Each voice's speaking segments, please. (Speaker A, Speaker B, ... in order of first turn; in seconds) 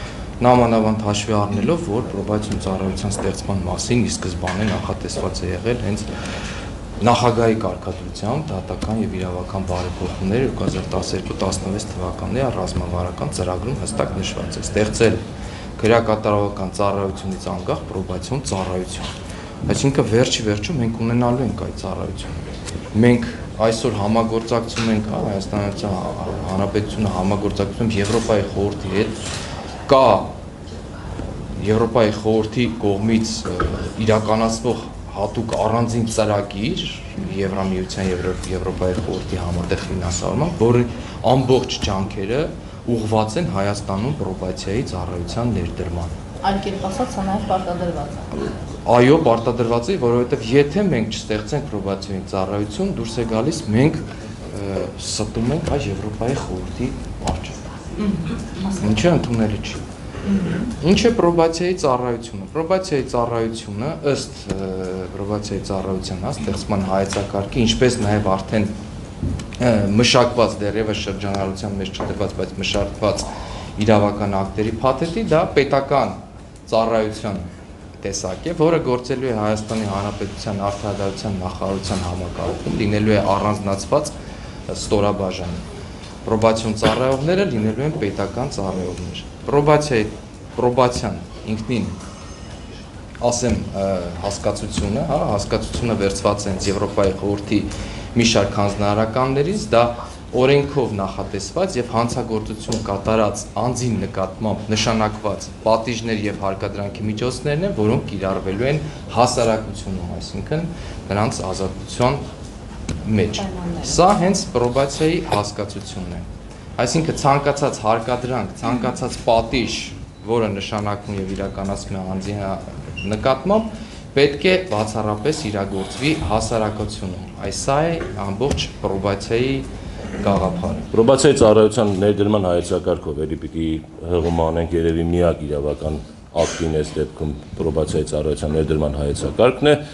Speaker A: 0.4-6.1, 7.0-15.2, 15.8-19.1, 19.6-29.2, 29.9-30.3, 31.5-46.1, 48.4-57.7, 58.7-59.8, 60.7-68.7, 69.6-77.5, 78.0-84.1, 84.7-85.6, 86.2-92.0, 93.2-112.2, 113.0-129.7, 130.2-130.9
Speaker B: 46.4-48.3, 58.0-58.9, 60.2-60.7, 113.3-114.0
Speaker C: 130.9-139.8